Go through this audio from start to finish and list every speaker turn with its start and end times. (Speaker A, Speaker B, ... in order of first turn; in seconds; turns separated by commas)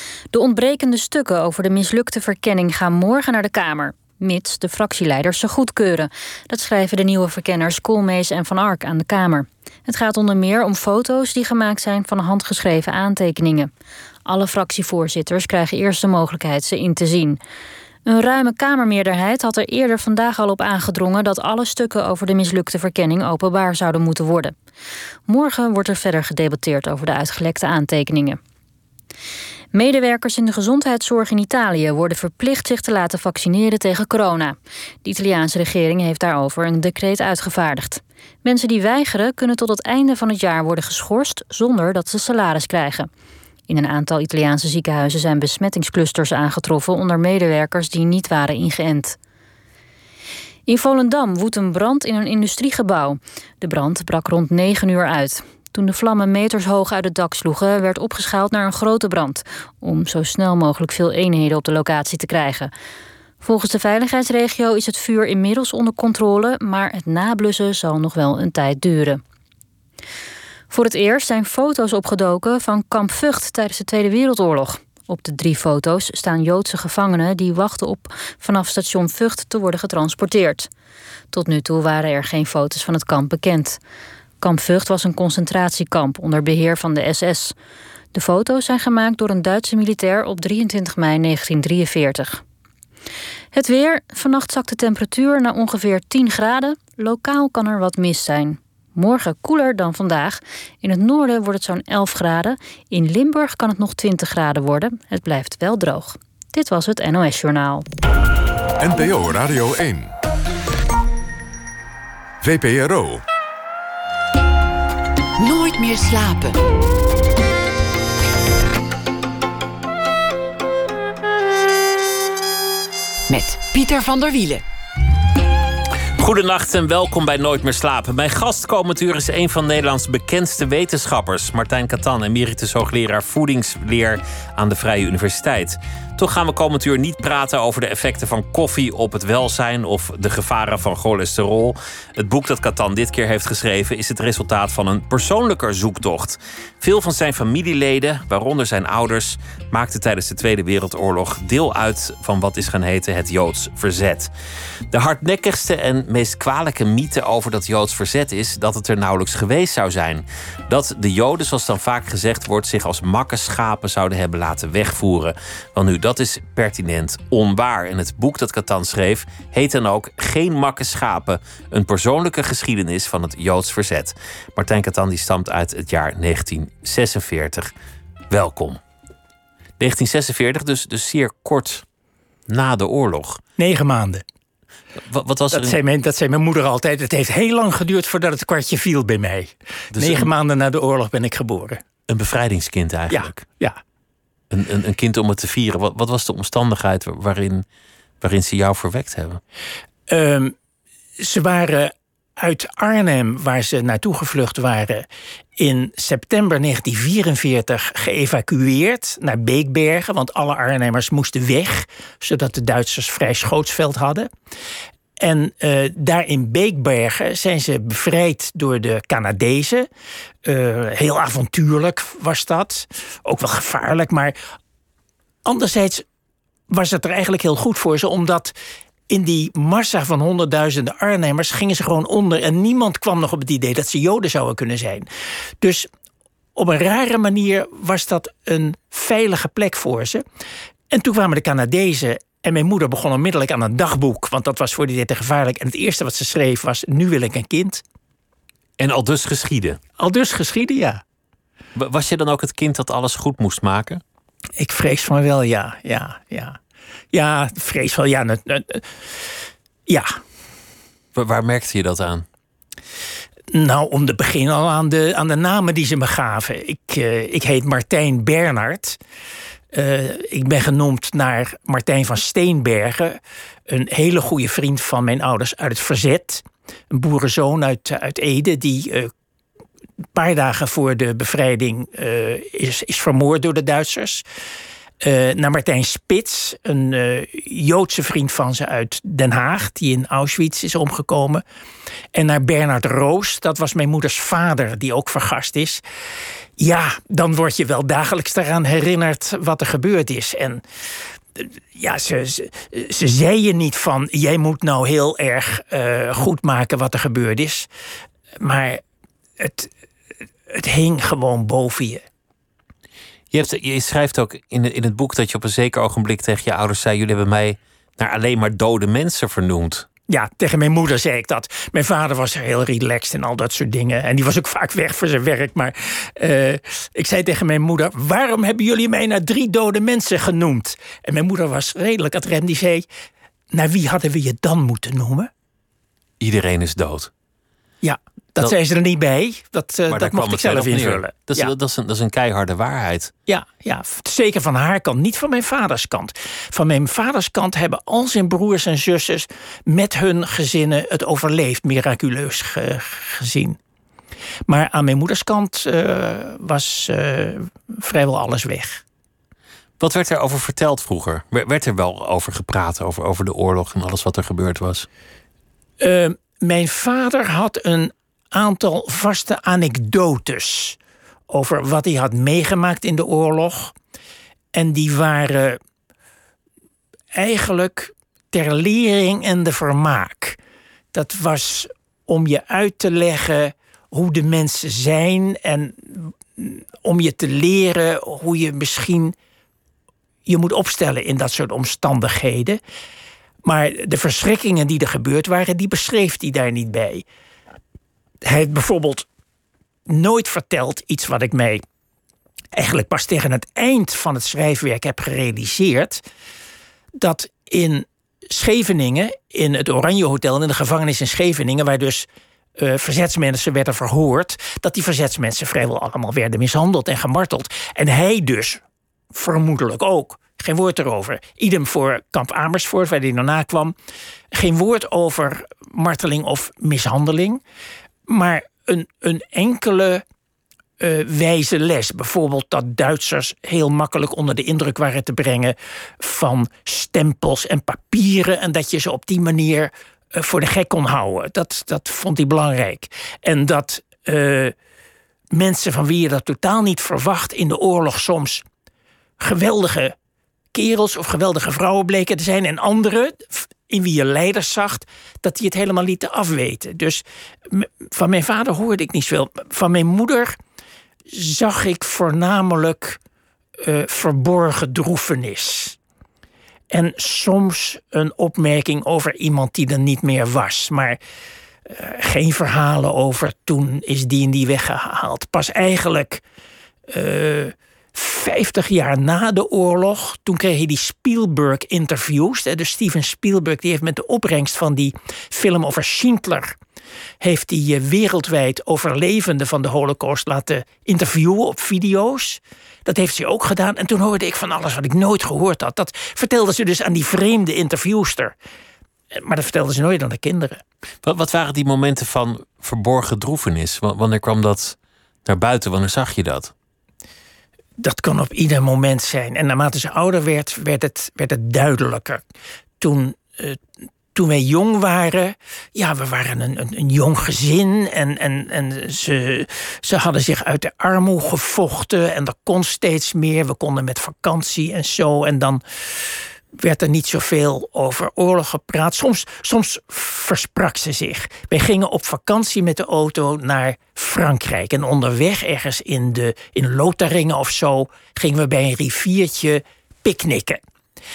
Speaker A: 0.3-13.7, Speaker A: 14.2-17.4, Speaker A: 18.1-24.5, Speaker A: 25.3-28.4, Speaker A: 29.7-43.1, Speaker A: 43.7-49.2, Speaker A: 50.7-62.7, Speaker A: 63.4-69.2, Speaker A: 70.7-80.7, Speaker A: 81.3-83.8, Speaker A: 84.4-87.5, Speaker A: 88.1-92.4, Speaker A: 93.5-107.8, Speaker B: 108.8-110.1, Speaker B: 112.4-113.2, Speaker C: 115.4-116.6, Speaker C: 123.3-124.6, Speaker D: 126.2-154.3, Speaker D: 154.9-177.7, Speaker D: 178.3-178.8, Speaker D: 179.8-181.8, Speaker D: 182.5-183.4, Speaker E: 183.6-184.2, Speaker D: 185.0-185.8, Speaker E: 185.5-191.8, Speaker D: 189.9-190.3, Speaker D: 192.1-193.4, Speaker E: 193.1-193.8, Speaker D: 194.5-197.6, Speaker D: 198.2-199.4, Speaker E: 200.1-200.5, Speaker E: 201.2-205.0, Speaker E: 205.6-214.3, Speaker E: 215.2-219.9, Speaker E: 220.4-224.3, Speaker E: 225.4-226.0, Speaker E: 226.7-228.5, Speaker E: 229.1-235.1, Speaker E: 235.6-235.9, Speaker E: 236.6-240.2, Speaker E: 240.9-247.8, Speaker D: 248.8-249.8, Speaker E: 250.0-251.0, Speaker D: 251.7-254.0, Speaker E: 254.6-256.6, Speaker E: 257.1-258.8, Speaker E: 259.9-260.1, Speaker D: 261.1-262.2, Speaker E: 263.5-269.0, Speaker E: 269.7-279.1, Speaker E: 280.1-284.2, Speaker E: 285.0-291.4, Speaker E: 292.1-295.8, Speaker E: 296.6-300.6, Speaker E: 301.4-307.7, Speaker E: 308.4-308.8, Speaker E: 309.4-309.7, Speaker E: 310.5-312.0, Speaker D: 313.3-319.9, Speaker E: 320.1-332.9, Speaker E: 333.5-335.3, Speaker D: 336.2-337.1, Speaker E: 337.8-341.5, Speaker D: 339.9-343.1, Speaker E: 343.3-353.6, Speaker E: 354.5-358.8, Speaker D: 359.8-364.9, Speaker E: 365.8-370.8, Speaker E: 371.3-373.7, Speaker E: 374.5-375.6, Speaker E: 377.1-380.4, Speaker E: 380.9-389.1, Speaker E: 390.2-392.6, Speaker E: 393.4-397.0, Speaker E: 398.2-399.1, Speaker E: 399.9-401.6, Speaker E: 402.5-406.0, Speaker E: 407.0-412.1, Speaker E: 412.6-418.6, Speaker E: 419.1-423.7, Speaker E: 424.3-427.4, Speaker E: 428.1-430.0, Speaker E: 430.8-444.5, Speaker E: 445.3-448.4, Speaker E: 449.2-449.9, Speaker E: 450.5-460.4, Speaker E: 461.1-463.0, Speaker E: 463.6-465.8, Speaker E: 466.7-471.0, Speaker E: 471.7-476.2, Speaker E: 476.9-486.6, Speaker E: 487.2-498.3, Speaker E: 499.1-500.6, Speaker D: 501.0-506.5, Speaker E: 507.8-512.2, Speaker E: 512.8-513.6, Speaker E: 514.1-525.6, Speaker E: 526.6-540.6